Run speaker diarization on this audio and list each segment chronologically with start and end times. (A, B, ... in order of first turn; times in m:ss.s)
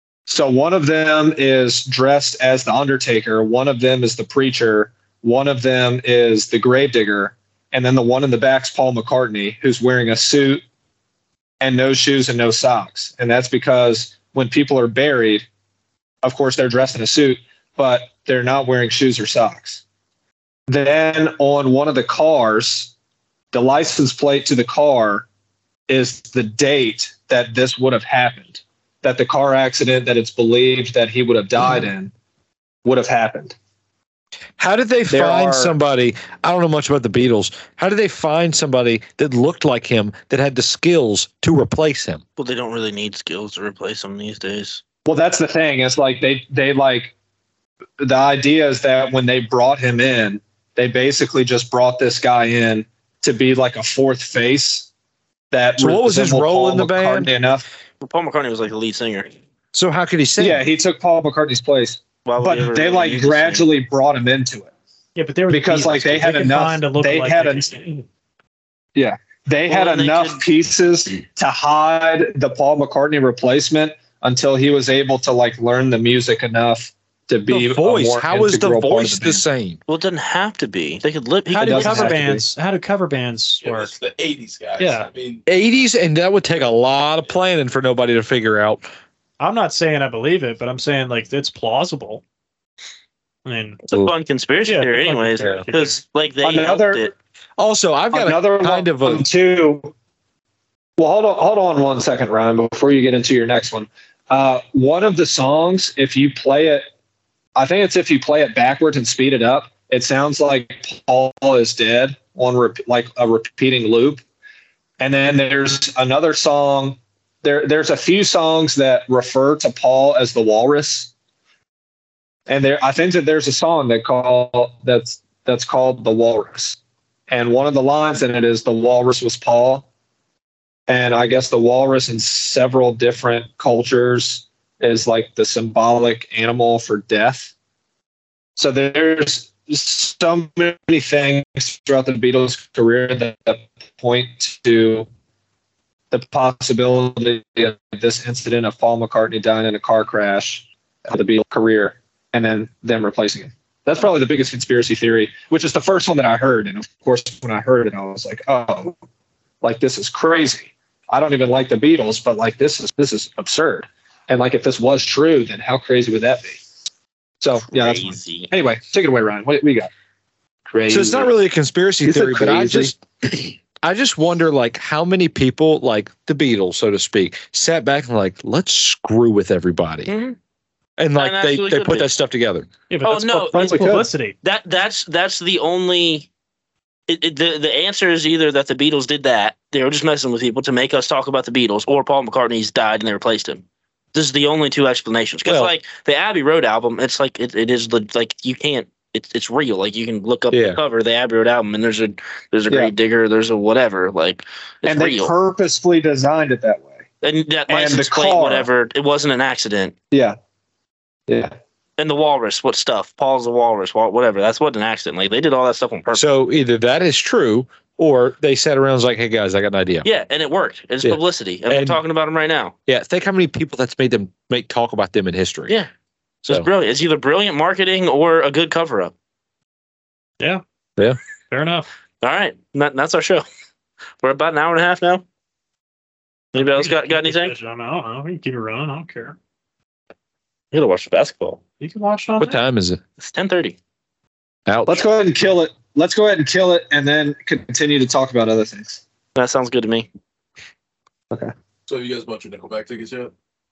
0:00.3-0:10.6 A
0:11.6-0:15.5 A
0:16.2-0:19.8 A
0:20.7-0:22.9 A
0:23.5-0:25.3 A
0:25.9-0:32.1 A
0:32.8-0:33.6 A
0:34.6-0:42.2 B
0:35.1-0:35.8 A
0:42.4-0:44.8 C
0:45.1-0:47.1 A
0:48.0-0:54.9 A
0:55.5-0:57.6 A
0:55.8-0:57.3 B
0:58.0-0:59.3 C
0:59.7-1:00.6 B
1:00.4-1:04.7 A
1:02.2-1:03.7 C
1:05.2-1:08.1 D
1:05.5-1:07.7 A
1:09.0-1:19.4 A
1:09.7-1:10.4 C
1:17.5-1:19.8 B
1:19.9-1:22.2 C
1:21.5-1:23.9 D
1:21.6-1:22.5 A
1:23.6-1:25.4 E
1:24.8-1:25.1 D
1:25.5-1:28.9 B
1:29.4-1:32.2 D
1:33.4-1:33.8 D
1:33.9-1:37.1 C
1:34.7-1:36.0 D
1:35.4-1:35.7 B
1:36.4-1:37.1 A
1:37.6-1:39.3 B
1:38.1-1:39.9 A
1:41.0-1:46.9 A
1:47.6-1:54.2 A
1:55.0-2:01.1 A
2:02.5-2:06.8 A
2:07.3-2:09.8 A
2:10.9-2:17.5 A
2:18.6-2:25.1 A
2:26.1-2:39.0 A
2:39.6-2:46.6 A
2:47.4-2:49.9 A
2:47.7-2:48.5 C
2:50.7-2:51.3 A
2:50.9-3:00.1 B
2:52.0-2:52.9 A
3:00.1-3:00.4 C
3:01.0-3:02.7 B
3:01.2-3:02.1 C
3:02.9-3:04.4 D
3:03.0-3:03.8 C
3:03.5-3:04.1 A
3:04.4-3:06.3 C
3:07.1-3:25.3 C
3:15.5-3:15.7 B
3:20.5-3:20.8 B
3:24.8-3:27.0 A
3:27.2-3:29.9 C
3:27.7-3:28.7 A
3:30.1-3:30.4 A
3:31.3-3:31.5 A
3:32.0-3:36.3 C
3:36.1-3:40.1 B
3:40.0-3:42.8 C
3:41.0-3:42.0 B
3:42.9-3:45.8 B
3:46.4-3:49.1 C
3:51.5-3:51.9 D
3:52.2-3:53.4 C
3:54.2-3:55.2 C
3:56.5-3:59.4 D
3:56.6-3:57.5 C
4:00.7-4:01.6 C
4:01.8-4:02.6 D
4:02.4-4:03.0 B
4:03.2-4:03.8 C
4:04.7-4:05.0 B
4:04.9-4:09.0 A
4:09.4-4:10.1 C
4:11.9-4:13.3 E